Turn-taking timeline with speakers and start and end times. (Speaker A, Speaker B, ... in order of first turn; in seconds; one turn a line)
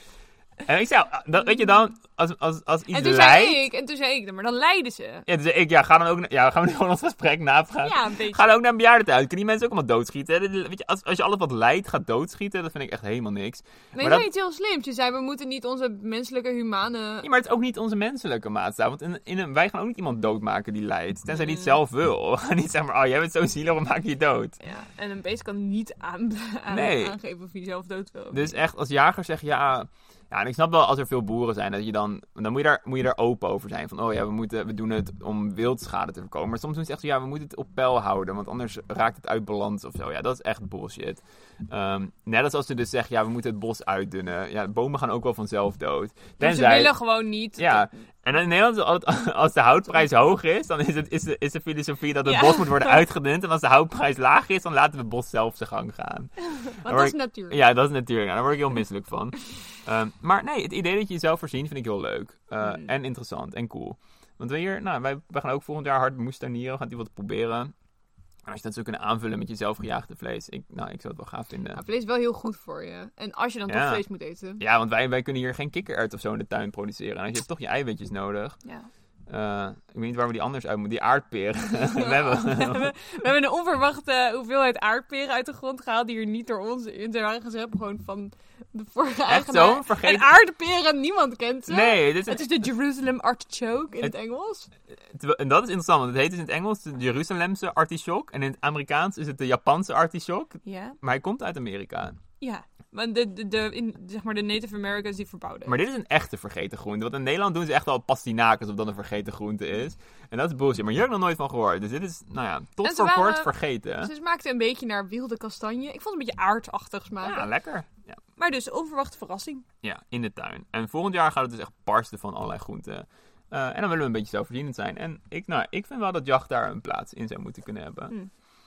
Speaker A: 0.6-3.6
Speaker B: 2.9-5.2
Speaker A: 5.3-14.3
Speaker B: 7.8-8.6
Speaker B: 13.9-17.3
Speaker A: 17.2-24.6
Speaker B: 21.4-21.7
Speaker B: 24.6-28.6
Speaker A: 26.7-27.1
Speaker A: 28.3-46.9
Speaker B: 46.4-47.9
Speaker A: 47.6-67.7
Speaker B: 52.2-53.0
Speaker B: 56.5-57.6
Speaker B: 62.6-62.9
Speaker A: 68.4-71.8
Speaker B: 71.7-74.6
Speaker A: 73.7-74.0
Speaker A: 74.6-78.6
Speaker A: 79.3-82.9
Speaker B: 81.9-94.7
Speaker A: 89.3-90.3
Speaker A: 91.7-92.5
Speaker A: 94.9-102.2
Speaker B: 100.6-101.0
Speaker B: 102.4-105.8
Speaker A: 105.7-114.1
Speaker B: 112.8-117.5
Speaker A: 117.2-118.2
Speaker B: 118.4-119.6
Speaker A: 119.8-128.1